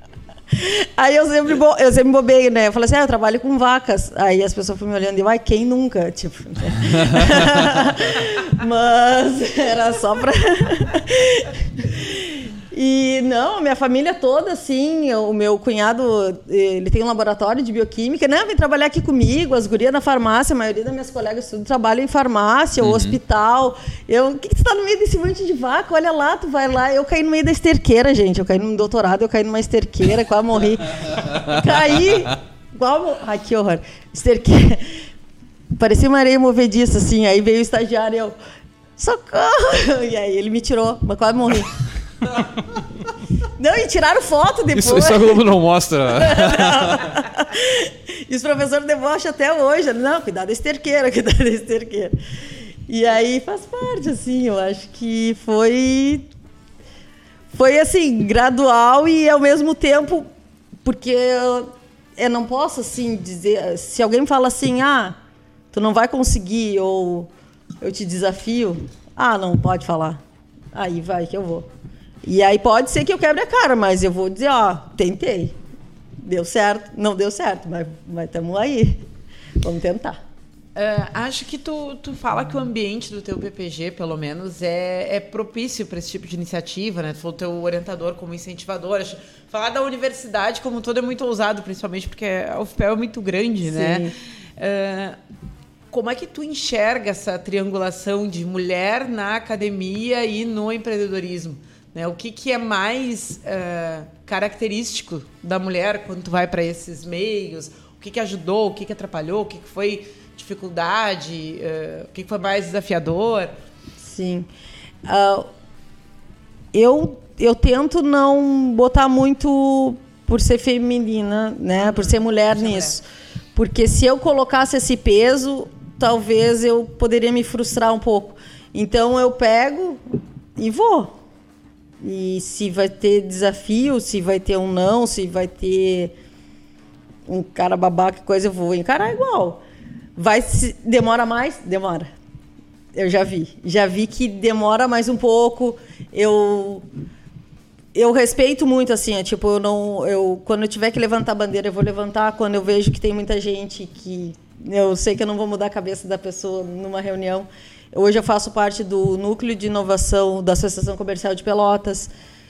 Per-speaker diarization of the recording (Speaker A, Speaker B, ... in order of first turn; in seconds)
Speaker A: 0.5-35.0, 35.7-38.3, 39.0-41.7, 43.6-45.4, 46.2-52.1, 52.9-56.3, 57.5-60.2, 60.8-65.2, 65.7-67.3, 67.8-70.2, 70.7-71.7, 72.2-75.5, 76.2-79.0, 79.6-80.2, 93.7-94.1, 114.0-114.5, 115.0-115.5, 116.7-123.0, 123.5-130.0, 130.6-131.1, 132.0-136.1, 137.3-139.6, 140.2-142.1, 142.9-146.8, 147.9-162.1
Speaker B: 22.8-23.2, 44.7-47.0
Speaker C: 80.7-95.2, 95.9-113.5, 121.8-122.9